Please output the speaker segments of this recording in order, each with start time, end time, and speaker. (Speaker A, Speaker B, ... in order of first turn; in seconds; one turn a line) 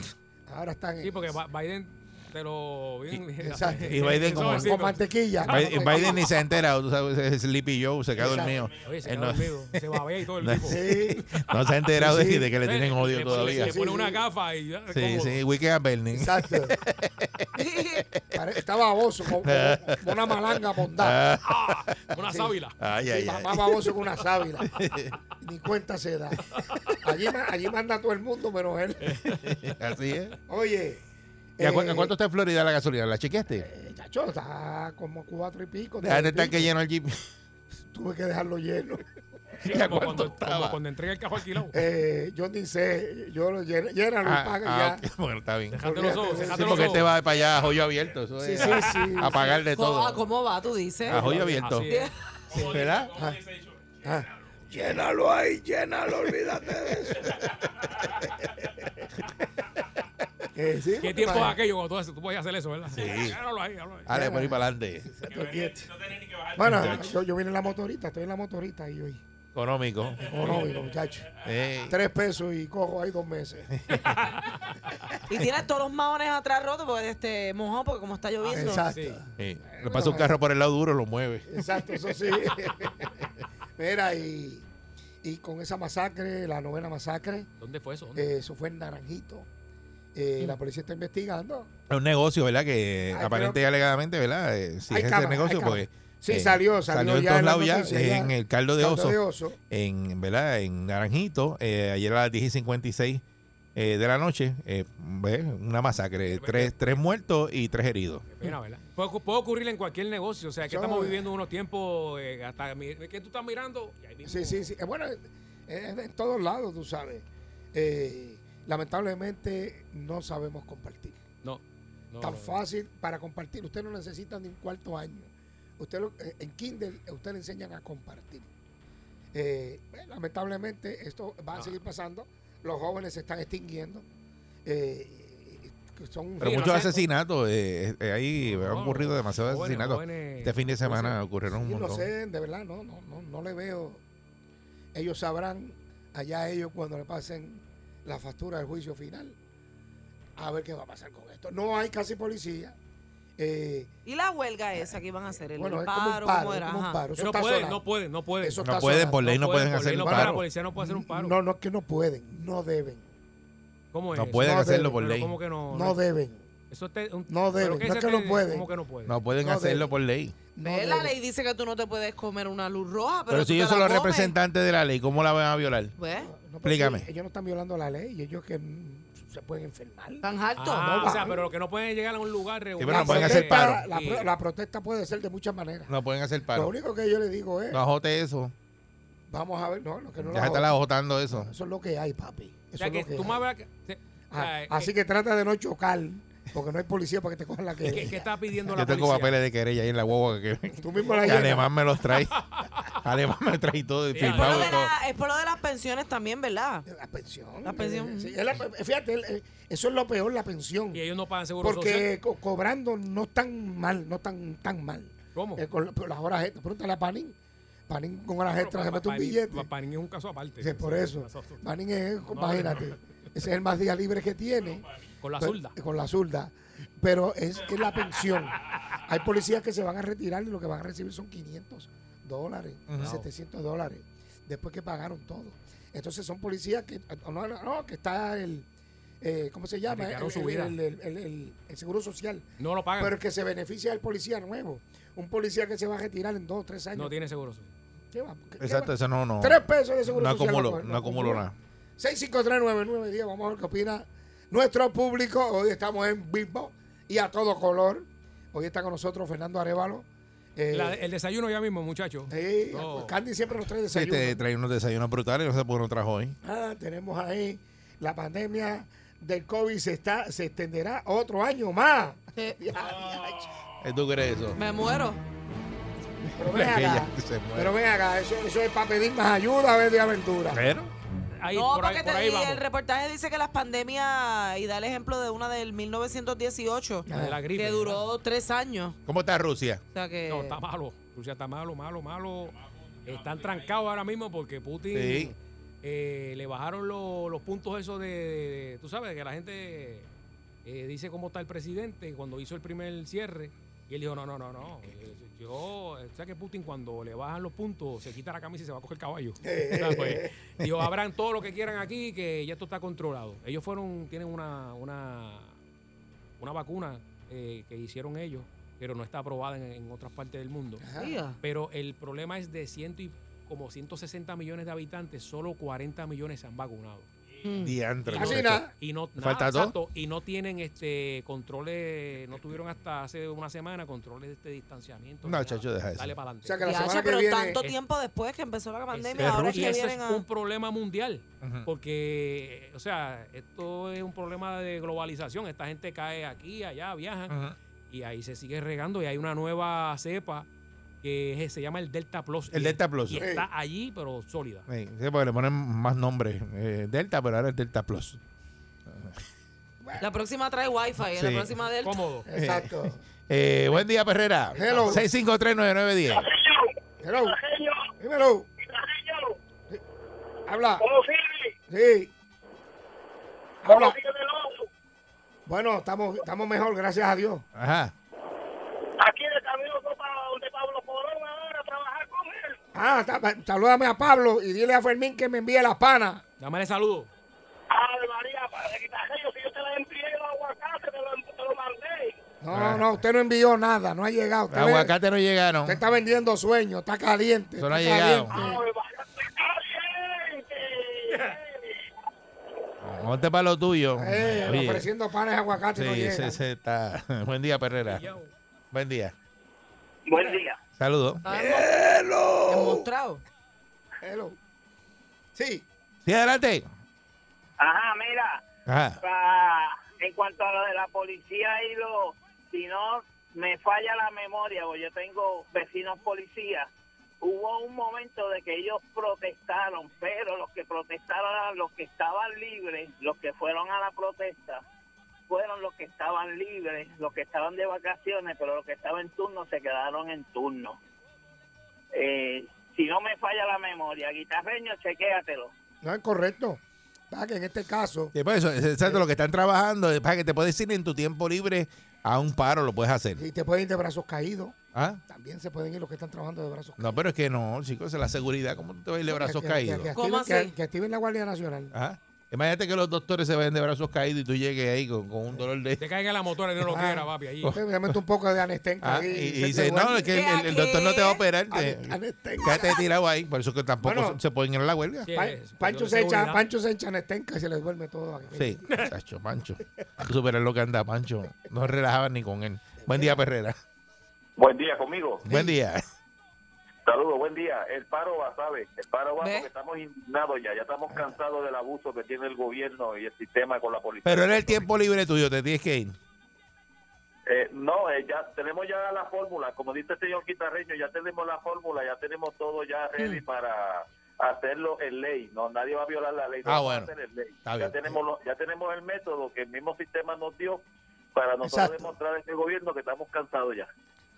Speaker A: 0.5-1.4
Speaker B: 1.0-6.3
Speaker A: 3.4-6.3
Speaker C: 3.8-4.7
Speaker C: 5.5-9.8
Speaker A: 8.1-8.7
Speaker B: 8.7-15.4
Speaker C: 10.4-13.8
Speaker A: 10.6-11.2
Speaker A: 11.9-12.5
Speaker A: 13.3-14.2
Speaker C: 14.9-17.5
Speaker A: 16.1-16.8
Speaker D: 17.5-18.0
Speaker C: 18.0-18.4
Speaker A: 18.3-21.2
Speaker C: 19.4-22.0
Speaker B: 21.4-22.8
Speaker A: 22.2-24.7
Speaker C: 22.8-23.8
Speaker C: 24.6-25.1
Speaker A: 25.4-26.5
Speaker B: 26.4-27.0
Speaker A: 27.0-29.2
Speaker B: 29.0-29.7
Speaker C: 29.7-30.4
Speaker A: 30.5-31.0
Speaker A: 31.6-32.1
Speaker C: 31.6-33.7
Speaker A: 33.6-36.7
Speaker C: 36.0-37.2
Speaker A: 37.9-39.0
Speaker B: 39.6-41.8
Speaker C: 39.6-40.8
Speaker A: 41.7-45.0
Speaker C: 44.2-50.2
Speaker B: 45.7-47.1
Speaker A: 45.8-47.1
Speaker A: 48.4-49.6
Speaker D: 49.2-52.1
Speaker B: 51.1-53.0
Speaker C: 51.1-51.9
Speaker C: 52.5-53.2
Speaker A: 52.6-53.4
Speaker A: 54.0-58.2
Speaker A: 60.5-61.6
Speaker B: 61.0-64.1
Speaker C: 62.9-63.4
Speaker C: 64.0-65.1
Speaker A: 64.1-69.2
Speaker C: 66.6-67.1
Speaker C: 69.5-70.2
Speaker A: 70.2-71.3
Speaker B: 70.4-70.7
Speaker C: 71.4-71.9
Speaker A: 71.8-73.7
Speaker B: 73.9-74.6
Speaker D: 75.3-78.9
Speaker A: 78.4-80.4
Speaker B: 78.8-79.2
Speaker C: 79.4-81.6
Speaker A: 81.5-84.7
Speaker A: 85.2-87.5
Speaker B: 87.6-88.3
Speaker A: 88.1-89.5
Speaker A: 90.1-91.7
Speaker C: 91.9-103.2
Speaker A: 93.1-93.6
Speaker A: 94.9-99.6
Speaker C: 103.8-108.2
Speaker B: 106.3-107.0
Speaker B: 108.3-114.7
Speaker A: 110.6-111.2
Speaker A: 114.2-121.2
Speaker B: 121.4-122.6
Speaker A: 122.2-128.5
Speaker A: 129.3-134.0
Speaker B: 131.5-131.8
Speaker A: 134.6-136.8
Speaker B: 136.4-137.0
Speaker C: 136.4-142.1
Speaker B: 138.4-141.2
Speaker A: 141.5-144.0
Speaker A: 144.9-149.3
Speaker A: 150.4-152.8
Speaker A: 153.4-153.9
Speaker D: 154.1-157.0
Speaker A: 154.7-157.8
Speaker B: 157.2-161.4
Speaker A: 158.4-159.3
Speaker C: 158.6-160.4
Speaker A: 160.0-163.1
Speaker B: 163.9-166.0
Speaker C: 164.1-165.3
Speaker A: 164.4-165.0
Speaker A: 165.7-166.4
Speaker B: 166.7-169.2
Speaker A: 167.3-168.7
Speaker C: 169.1-170.3
Speaker A: 169.4-169.9
Speaker A: 170.5-171.2
Speaker D: 170.6-174.3
Speaker C: 173.3-175.9
Speaker D: 176.0-176.3
Speaker A: 176.2-180.2
Speaker C: 176.6-177.1
Speaker D: 180.2-181.2
Speaker B: 180.6-184.3
Speaker A: 180.8-181.5
Speaker C: 182.8-183.8
Speaker A: 182.9-185.9
Speaker C: 185.9-186.7
Speaker A: 186.5-187.8
Speaker C: 187.7-188.5
Speaker A: 189.3-190.7
Speaker C: 190.2-191.5
Speaker A: 191.3-193.4
Speaker B: 192.8-194.9
Speaker A: 194.3-198.7
Speaker B: 197.8-199.4
Speaker C: 198.7-204.9
Speaker A: 200.8-201.7
Speaker B: 201.0-201.4
Speaker B: 202.2-202.9
Speaker B: 204.1-204.8
Speaker D: 204.2-206.8
Speaker A: 206.9-211.0
Speaker D: 207.6-208.4
Speaker B: 210.9-212.1
Speaker A: 211.6-217.3
Speaker B: 215.3-215.6
Speaker A: 217.9-219.7
Speaker B: 218.5-221.6
Speaker A: 220.6-224.8
Speaker B: 222.3-222.9
Speaker B: 225.2-225.7
Speaker A: 225.4-238.7
Speaker C: 232.9-233.2
Speaker B: 233.0-233.3
Speaker A: 239.2-242.4
Speaker B: 239.9-240.8
Speaker B: 242.6-243.2
Speaker A: 243.0-247.1
Speaker B: 246.9-247.7
Speaker A: 248.1-251.4
Speaker C: 248.6-251.5
Speaker A: 252.0-261.0
Speaker B: 260.7-263.2
Speaker A: 262.3-264.4
Speaker C: 263.9-266.4
Speaker A: 266.4-273.6
Speaker C: 273.8-274.6
Speaker D: 274.5-275.2
Speaker C: 276.3-277.7
Speaker A: 276.4-280.6
Speaker C: 280.5-280.9
Speaker B: 281.4-282.6
Speaker D: 281.5-288.9
Speaker A: 287.1-287.4
Speaker B: 287.1-288.0
Speaker C: 289.1-289.8
Speaker D: 289.9-290.6
Speaker B: 290.3-300.1
Speaker C: 294.9-295.3
Speaker B: 300.6-315.6
Speaker A: 309.4-310.3
Speaker B: 316.4-320.9
Speaker A: 320.8-321.2
Speaker D: 321.0-321.3
Speaker B: 321.4-327.1
Speaker D: 327.4-327.8
Speaker C: 327.6-329.7
Speaker B: 328.1-336.8
Speaker A: 328.1-328.7
Speaker C: 335.2-336.1
Speaker A: 336.4-337.7
Speaker D: 336.6-340.2
Speaker B: 338.9-347.4
Speaker C: 339.2-339.8
Speaker C: 341.4-341.7
Speaker C: 347.3-347.6
Speaker B: 347.9-350.5
Speaker B: 351.0-354.7
Speaker C: 352.5-353.2
Speaker A: 353.1-353.5
Speaker C: 354.7-358.2
Speaker C: 358.9-359.1
Speaker A: 359.8-360.1
Speaker D: 360.0-362.0
Speaker C: 361.1-361.5
Speaker B: 361.8-362.3
Speaker A: 362.2-363.0
Speaker C: 362.4-366.2
Speaker B: 364.5-365.0
Speaker A: 364.5-365.1
Speaker E: 366.1-366.7
Speaker A: 367.0-367.4
Speaker E: 367.2-367.9
Speaker A: 368.0-368.5
Speaker E: 368.6-369.3
Speaker A: 370.5-370.8
Speaker E: 370.8-371.5
Speaker A: 371.7-372.1
Speaker A: 373.6-374.0
Speaker E: 373.6-374.6
Speaker A: 375.5-377.4
Speaker C: 377.5-377.9
Speaker E: 378.9-382.6
Speaker A: 382.7-386.2
Speaker B: 386.4-387.1
Speaker E: 387.7-392.1
Speaker A: 392.4-394.9
Speaker C: 392.5-393.0
Speaker C: 394.5-395.8
Speaker A: 395.6-398.6
Speaker C: 397.6-398.4
Speaker E: 398.3-401.8
Speaker C: 402.8-404.9
Speaker A: 403.9-406.4
Speaker C: 405.7-408.1
Speaker B: 407.8-408.3
Speaker C: 408.7-409.1
Speaker E: 410.1-410.6
Speaker C: 410.8-411.2
Speaker D: 411.2-411.7
Speaker A: 411.3-412.9
Speaker D: 412.5-413.2
Speaker A: 414.0-414.4
Speaker A: 415.3-415.6
Speaker C: 416.0-416.7
Speaker E: 417.6-418.4
Speaker C: 418.7-419.0
Speaker E: 419.0-426.7
Speaker E: 427.2-434.6
Speaker E: 435.3-440.8
Speaker E: 441.9-445.5
Speaker A: 445.8-446.6
Speaker A: 447.1-448.1
Speaker C: 448.1-453.2
Speaker A: 453.1-454.5
Speaker C: 454.7-455.0
Speaker A: 455.1-457.0
Speaker C: 456.8-459.9
Speaker A: 459.1-461.7
Speaker D: 459.9-460.6
Speaker C: 461.7-465.8
Speaker B: 465.8-467.6
Speaker A: 466.6-470.1
Speaker C: 467.4-468.0
Speaker C: 468.8-475.1
Speaker D: 470.0-471.3
Speaker A: 471.4-472.8
Speaker A: 473.8-474.2
Speaker B: 475.0-476.4
Speaker A: 475.1-478.9
Speaker C: 478.3-483.6
Speaker A: 482.9-483.2
Speaker F: 484.4-485.2
Speaker A: 485.2-485.6
Speaker C: 485.2-485.8
Speaker F: 486.9-494.6
Speaker D: 489.2-489.5
Speaker C: 494.0-496.0
Speaker F: 497.3-513.6
Speaker D: 503.0-503.2
Speaker C: 506.4-506.9
Speaker C: 507.4-507.8
Speaker A: 511.4-511.9